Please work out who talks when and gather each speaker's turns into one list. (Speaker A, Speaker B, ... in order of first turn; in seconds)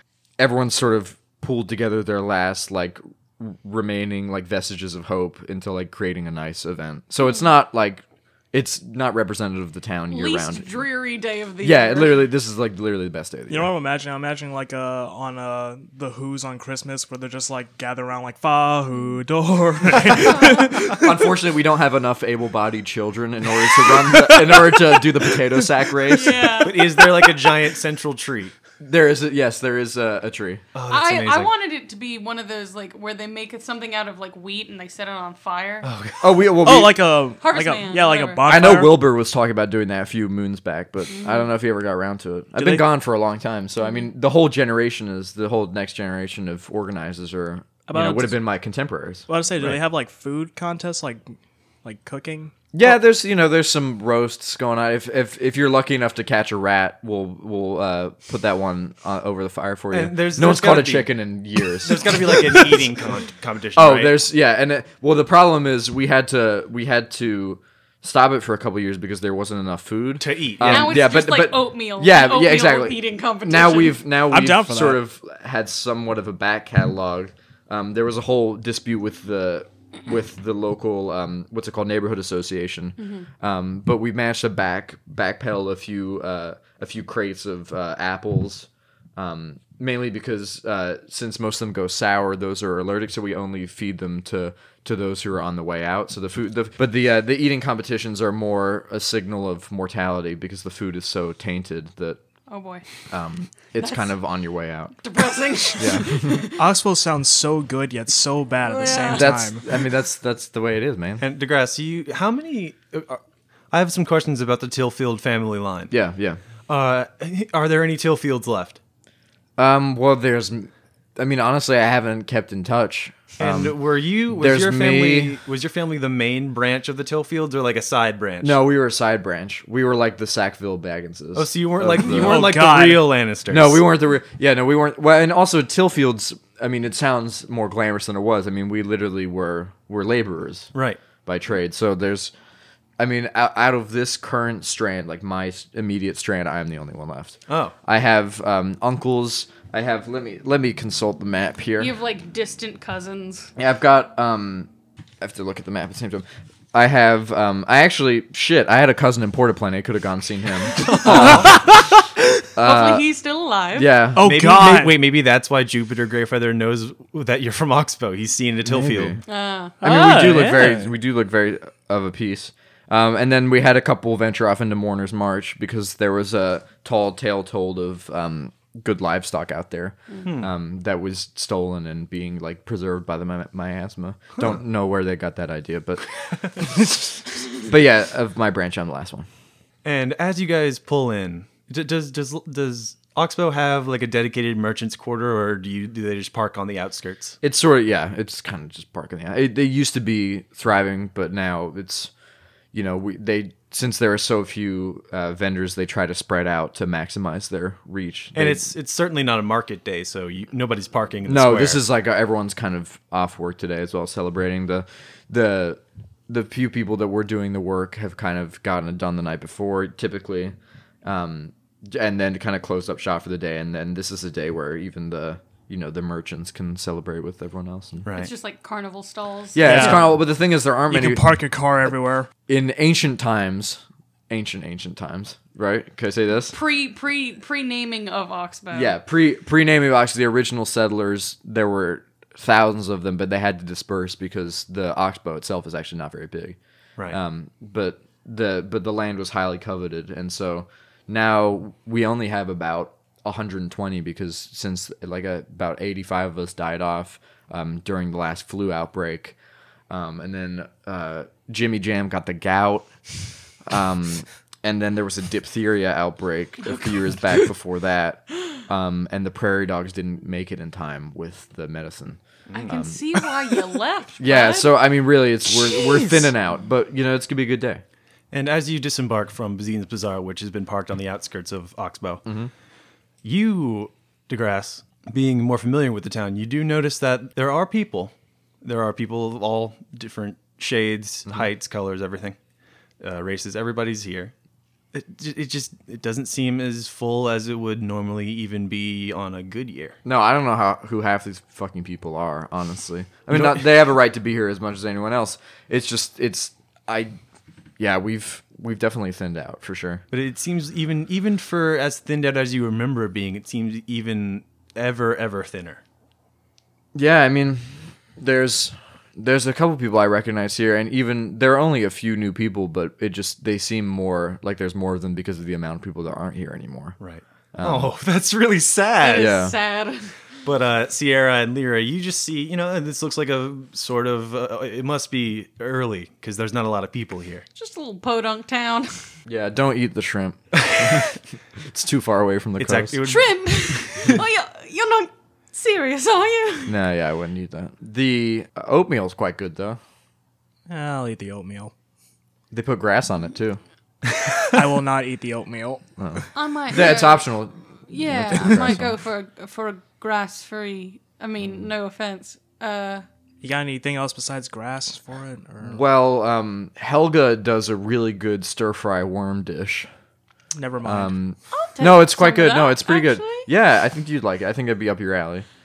Speaker A: 0.4-10.8, 11.6-13.7, 20.2-26.6, 28.8-30.6, 36.2-37.0, 38.5-49.8, 52.7-62.9, 63.8-102.2, 103.1-105.0, 105.7-106.4, 109.0-111.2, 115.9-116.4, 119.6-123.8, 124.3-125.4, 128.4-132.5, 133.5-140.7, 141.2-142.3, 143.0-151.9, 153.6-154.7, 155.2-162.0, 162.5-163.0, 163.7-164.3, 168.6-169.2, 169.8-189.3, 197.4-202.1, 202.7-208.7, 211.2-228.1, 229.5-231.3, 232.5-236.6, 238.7-246.6, 247.1-259.4, 259.9-262.9, 263.6-273.0, 274.2-277.8, 282.2-282.5, 300.0-307.1, 307.8-310.0, 316.9-327.0, 327.5-327.9, 329.1-329.6, 339.2-343.0, 346.7-349.8, 352.5-353.6, 356.0-358.9, 365.6-369.9, 370.8-375.5
Speaker B: 10.1-12.3, 26.1-27.0, 30.9-35.9, 37.4-38.4, 41.1-41.5, 70.6-74.0, 83.0-83.3, 102.5-102.8, 103.8-104.1, 105.0-106.6, 108.6-109.3, 151.8-153.5, 162.6-163.9, 169.3-169.8, 228.1-229.9, 236.5-238.9, 272.5-274.8, 329.0-330.1, 337.6-339.0, 343.0-346.8, 356.3-357.3, 357.9-363.0, 371.5-373.5
Speaker C: 13.5-21.0, 24.0-25.4, 36.6-39.0, 42.6-42.9, 47.9-48.4, 49.3-52.5, 74.3-75.0, 106.6-109.6, 132.1-133.1, 164.2-164.9, 169.8-170.9, 229.6-230.2, 230.9-232.3, 350.7-351.7, 354.5-356.2, 363.4-365.8, 370.5-371.1
Speaker D: 26.6-28.5, 30.7-31.5, 35.8-36.5, 59.9-64.2, 70.2-71.1, 111.2-115.9, 116.7-118.8, 123.4-128.6, 131.3-133.8, 140.7-141.0, 147.5-147.7, 160.8-161.5, 164.2-169.2, 180.2-180.5, 189.8-197.4, 208.3-211.8, 228.0-228.3, 229.7-230.0, 272.5-272.7, 278.3-282.2, 283.2-292.4, 293.0-294.3, 294.9-300.0, 303.3-303.8, 310.1-315.8, 327.0-329.4, 330.4-337.4, 340.6-341.1, 342.6-344.1, 354.1-354.4